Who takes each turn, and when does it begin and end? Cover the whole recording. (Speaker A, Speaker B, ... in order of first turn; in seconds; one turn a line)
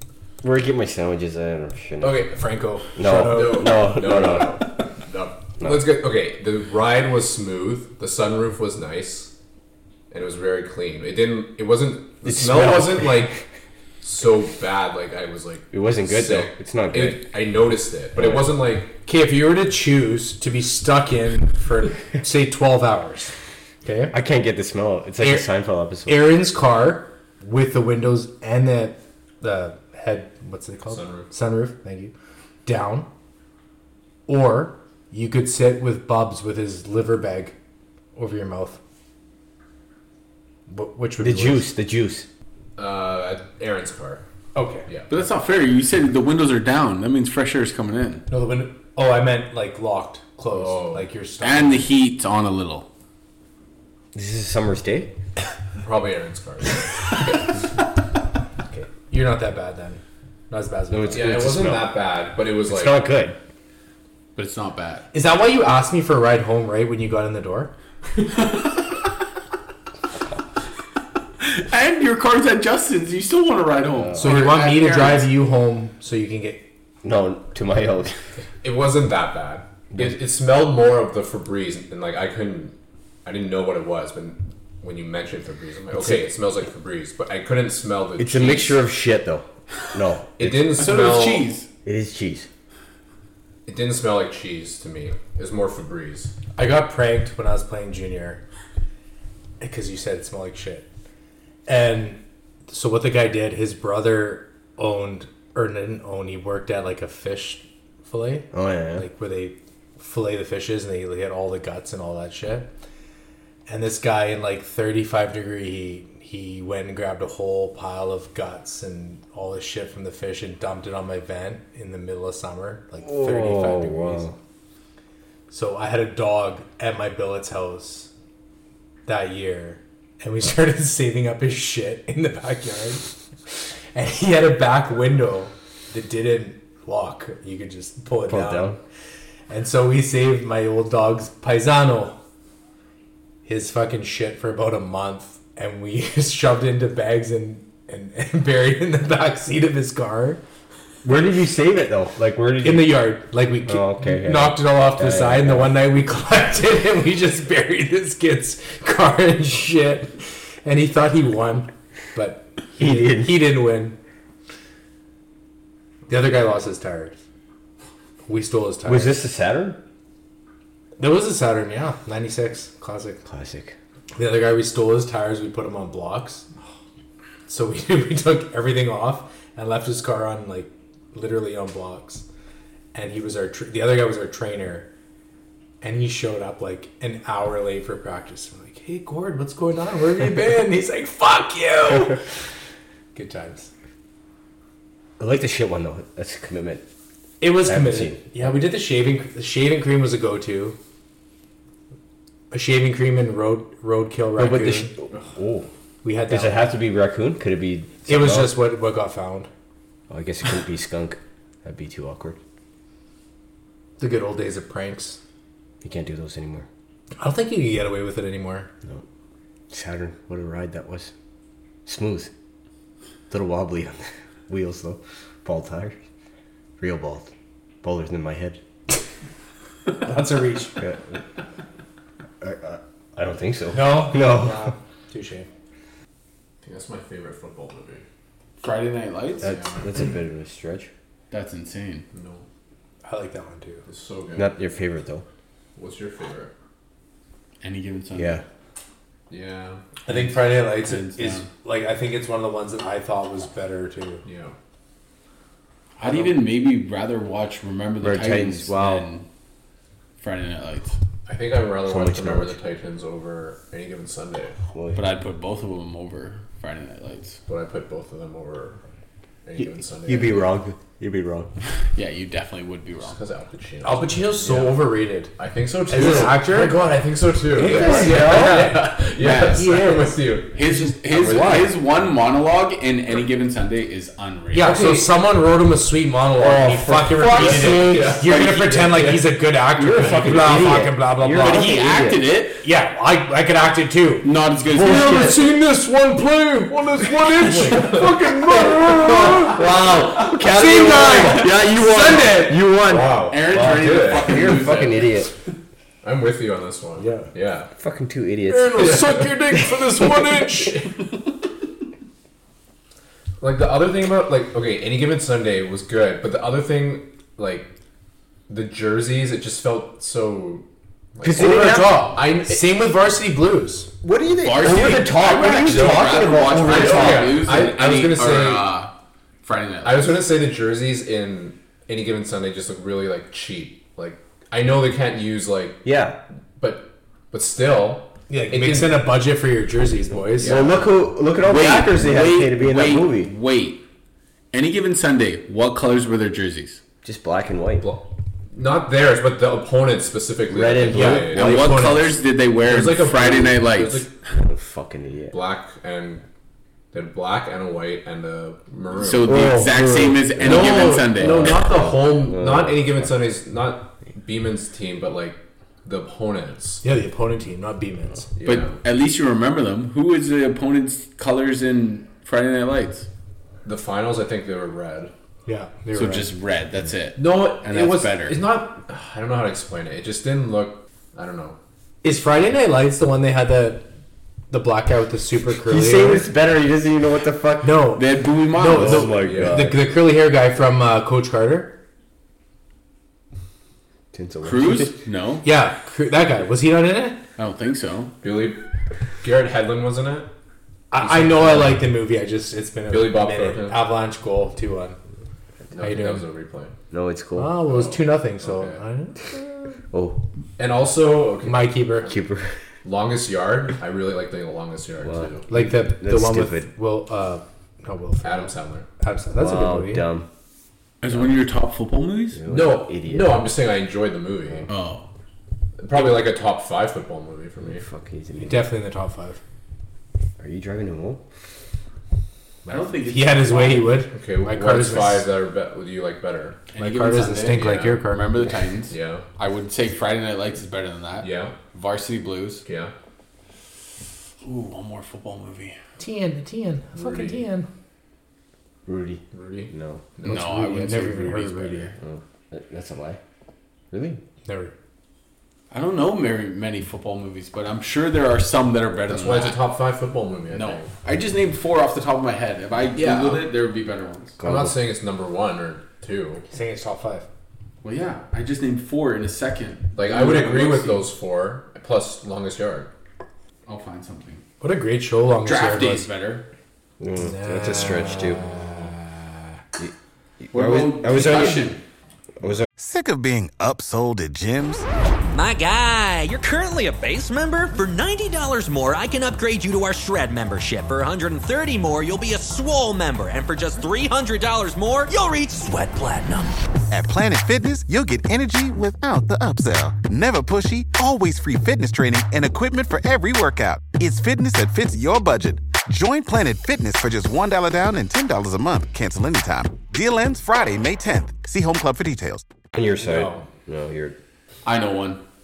Speaker A: 0.4-2.2
Speaker B: 2.0-2.4
Speaker C: 2.3-3.7
Speaker A: 3.0-4.6
Speaker B: 3.1-9.3
Speaker B: 10.1-13.4
Speaker A: 12.2-13.4
Speaker B: 14.0-18.9
Speaker A: 15.7-17.2
Speaker A: 18.1-18.4
Speaker C: 19.0-23.3
Speaker C: 23.8-24.1
Speaker A: 24.1-26.3
Speaker C: 25.2-25.5
Speaker C: 26.1-32.1
Speaker B: 30.9-31.3
Speaker C: 32.6-33.1
Speaker C: 34.3-37.5
Speaker C: 38.1-38.8
Speaker C: 40.7-41.7
Speaker A: 41.2-42.3
Speaker B: 42.8-44.2
Speaker C: 44.5-44.9
Speaker B: 44.9-45.2
Speaker D: 45.1-48.2
Speaker C: 48.3-51.9
Speaker B: 50.5-51.1
Speaker D: 51.4-52.9
Speaker A: 54.1-55.1
Speaker B: 55.8-57.6
Speaker C: 58.7-61.4
Speaker A: 60.9-62.1
Speaker B: 61.1-63.0
Speaker A: 62.6-63.4
Speaker D: 64.3-65.0
Speaker C: 65.1-67.7
Speaker D: 71.4-75.3
Speaker C: 74.2-76.7
Speaker A: 77.0-78.1
Speaker B: 78.6-82.7
Speaker B: 83.2-88.8
Speaker A: 85.9-86.2
Speaker A: 88.2-90.8
Speaker B: 90.4-91.5
Speaker D: 90.7-91.7
Speaker A: 91.8-92.5
Speaker B: 93.7-96.3
Speaker C: 96.5-98.4
Speaker C: 99.6-100.8
Speaker C: 101.7-112.7
Speaker A: 108.5-109.1
Speaker C: 113.7-124.3
Speaker A: 123.0-124.3
Speaker C: 125.5-128.1
Speaker C: 129.1-133.1
Speaker C: 133.9-138.7
Speaker A: 138.3-138.8
Speaker C: 139.5-142.2
Speaker C: 143.4-150.4
Speaker A: 151.0-153.1
Speaker C: 152.6-163.9
Speaker A: 153.7-155.8
Speaker A: 162.8-163.3
Speaker C: 166.1-167.2
Speaker C: 168.2-169.2
Speaker A: 168.8-169.8
Speaker C: 171.0-173.2
Speaker A: 173.2-173.7
Speaker C: 174.2-176.4
Speaker C: 177.5-182.2
Speaker C: 182.9-184.9
Speaker C: 185.8-192.2
Speaker C: 193.1-193.7
Speaker A: 195.2-196.8
Speaker C: 197.4-200.8
Speaker A: 197.6-198.5
Speaker C: 202.5-204.9
Speaker A: 204.4-205.7
Speaker C: 206.0-206.7
Speaker A: 206.3-208.6
Speaker C: 208.1-209.5
Speaker A: 210.1-212.4
Speaker C: 214.0-215.2
Speaker A: 215.8-216.7
Speaker C: 217.2-218.7
Speaker A: 219.7-221.1
Speaker A: 221.8-222.3
Speaker A: 223.3-226.0
Speaker A: 226.8-227.3
Speaker A: 227.8-228.6
Speaker C: 230.0-230.8
Speaker A: 230.8-231.2
Speaker A: 232.4-234.7
Speaker C: 233.7-235.5
Speaker B: 236.6-238.0
Speaker D: 238.6-239.5
Speaker A: 239.4-240.9
Speaker B: 239.4-239.8
Speaker D: 241.3-242.1
Speaker B: 242.1-242.4
Speaker C: 243.0-243.8
Speaker B: 243.9-244.5
Speaker A: 244.3-245.2
Speaker B: 245.8-246.5
Speaker D: 247.6-248.4
Speaker A: 248.1-248.4
Speaker B: 249.3-249.9
Speaker C: 250.1-254.2
Speaker D: 250.1-251.5
Speaker B: 254.2-254.5
Speaker D: 256.0-259.2
Speaker A: 258.0-259.1
Speaker D: 260.2-261.0
Speaker B: 261.2-264.6
Speaker A: 261.9-262.5
Speaker A: 264.7-265.0
Speaker D: 264.9-267.4
Speaker B: 267.5-268.8
Speaker B: 269.4-270.5
Speaker A: 269.6-271.5
Speaker D: 271.9-273.2
Speaker B: 273.0-281.8
Speaker C: 273.8-275.3
Speaker C: 275.9-276.8
Speaker A: 277.5-278.7
Speaker C: 277.6-278.9
Speaker D: 279.1-279.8
Speaker C: 279.6-279.9
Speaker D: 280.5-284.9
Speaker A: 281.2-281.7
Speaker C: 284.5-291.8
Speaker B: 284.6-285.1
Speaker A: 286.4-288.2
Speaker B: 287.3-289.4
Speaker A: 289.8-292.2
Speaker B: 289.9-290.6
Speaker D: 291.3-292.6
Speaker C: 292.6-299.6
Speaker D: 294.2-295.4
Speaker A: 294.7-295.4
Speaker B: 297.4-298.4
Speaker A: 298.5-305.3
Speaker C: 300.4-302.6
Speaker D: 301.2-301.6
Speaker B: 302.7-304.9
Speaker D: 303.3-305.1
Speaker B: 306.0-307.7
Speaker C: 307.0-307.3
Speaker A: 307.8-309.1
Speaker C: 308.5-310.8
Speaker D: 308.7-310.8
Speaker B: 308.8-309.4
Speaker B: 313.4-317.7
Speaker B: 318.5-322.8
Speaker A: 321.2-322.1
Speaker C: 321.3-323.9
Speaker A: 324.0-327.5
Speaker D: 324.4-328.9
Speaker B: 325.6-328.8
Speaker D: 329.4-330.2
Speaker B: 329.8-335.9
Speaker A: 335.8-336.2
Speaker B: 336.6-339.1
Speaker C: 338.3-340.6
Speaker B: 340.3-340.9
Speaker A: 340.4-343.3
Speaker D: 341.4-343.8
Speaker D: 344.5-346.8
Speaker A: 347.0-347.9
Speaker B: 347.8-351.9
Speaker A: 350.5-351.8
Speaker C: 350.9-352.1
Speaker D: 351.1-354.1
Speaker B: 352.6-354.1
Speaker A: 354.4-355.4
Speaker B: 355.3-356.2
Speaker B: 356.9-359.5
Speaker D: 358.9-361.6
Speaker A: 359.2-363.1
Speaker B: 360.4-366.8
Speaker C: 366.8-368.3
Speaker B: 368.4-368.8
Speaker D: 368.4-373.1
Speaker B: 373.6-375.1
Speaker C: 375.4-376.3
Speaker D: 375.9-378.4
Speaker B: 377.1-381.6
Speaker C: 382.0-383.9
Speaker C: 384.5-386.3
Speaker A: 385.6-387.9
Speaker C: 387.6-391.8
Speaker D: 387.9-389.3
Speaker A: 388.6-389.8
Speaker B: 389.0-389.7
Speaker A: 394.1-395.0
Speaker D: 394.4-395.5
Speaker C: 395.4-397.2
Speaker D: 397.4-398.1
Speaker B: 398.2-398.6
Speaker B: 399.2-400.3
Speaker C: 400.9-405.0
Speaker B: 401.0-401.8
Speaker B: 402.9-403.8
Speaker B: 405.7-406.7
Speaker C: 405.8-406.2
Speaker A: 406.9-407.6
Speaker C: 407.4-409.7
Speaker B: 407.7-408.8
Speaker A: 409.9-410.2
Speaker B: 410.6-412.1
Speaker C: 411.4-412.1
Speaker A: 412.0-412.5
Speaker B: 412.8-415.5
Speaker A: 415.0-416.7
Speaker C: 415.5-420.1
Speaker B: 418.2-418.9
Speaker A: 419.3-420.3
Speaker D: 421.0-422.4
Speaker A: 422.3-423.5
Speaker B: 422.5-424.7
Speaker D: 424.7-425.1
Speaker B: 425.8-427.8
Speaker A: 427.6-428.7
Speaker C: 428.4-429.4
Speaker A: 430.4-431.2
Speaker C: 432.6-435.3
Speaker D: 432.7-434.1
Speaker B: 434.1-436.6
Speaker D: 436.7-442.6
Speaker C: 436.8-438.3
Speaker B: 437.5-438.0
Speaker B: 438.9-439.2
Speaker B: 441.2-441.6
Speaker B: 442.6-442.9
Speaker D: 444.4-445.8
Speaker C: 446.0-447.7
Speaker B: 446.9-447.5
Speaker A: 448.9-450.1
Speaker B: 449.3-450.3
Speaker C: 450.2-451.9
Speaker D: 450.2-451.9
Speaker A: 452.0-453.2
Speaker A: 453.9-454.2
Speaker C: 454.4-454.7
Speaker D: 455.7-459.6
Speaker B: 459.1-460.9
Speaker D: 460.5-464.4
Speaker B: 462.9-463.5
Speaker A: 464.4-464.8
Speaker B: 464.4-466.4
Speaker C: 466.5-467.3
Speaker D: 467.8-471.1
Speaker B: 469.9-472.9
Speaker D: 473.6-474.4
Speaker C: 474.6-476.1
Speaker D: 475.4-476.5
Speaker A: 477.0-478.4
Speaker C: 477.2-479.1
Speaker A: 479.8-481.7
Speaker D: 480.5-481.8
Speaker E: 482.8-484.9
Speaker F: 485.3-496.6
Speaker E: 496.9-512.4
Speaker A: 512.7-514.1
Speaker C: 513.0-513.5
Speaker D: 514.6-515.2